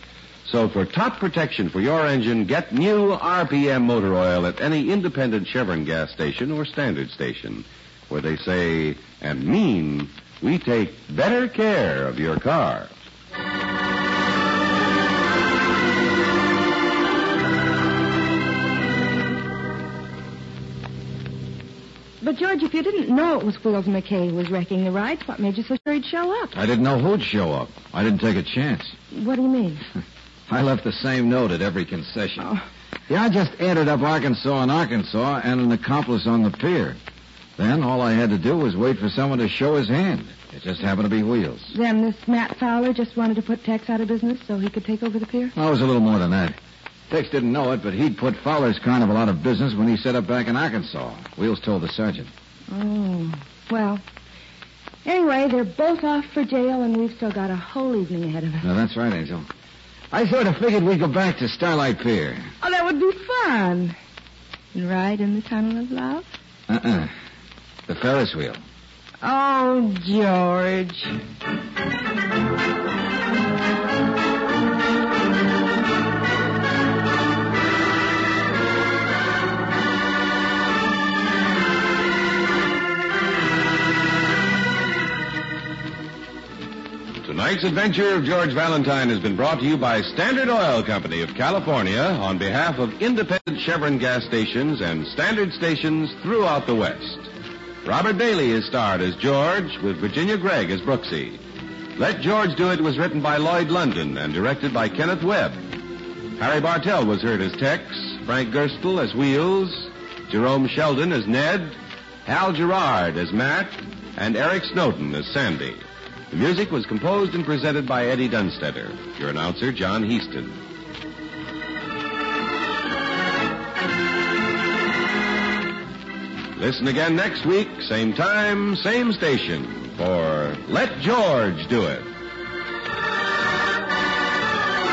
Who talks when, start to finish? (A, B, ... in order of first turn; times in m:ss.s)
0:00.4-0:12.9 A
0:22.2-0:26.5 B
0:26.5-0:28.9 C
0:29.1-0:29.8 B
0:30.5-0:32.5 C
0:33.1-0:37.0 C
0:37.6-0:41.7 C
0:41.7-0:45.5 B
0:45.5-0:46.6 C
0:47.1-0:52.3 C
0:52.7-0:54.0 B
0:55.0-0:58.6 B
0:58.6-0:59.5 C
1:00.1-1:02.5 C
1:02.6-1:04.0 B
1:04.7-1:06.3 B
1:06.7-1:07.1 C
1:07.9-1:08.6 C
1:09.2-1:11.1 B
1:27.2-1:37.3 A
1:37.8-1:41.4 A
1:42.0-1:45.6 A
1:46.4-2:00.6 A
2:06.5-2:12.1 A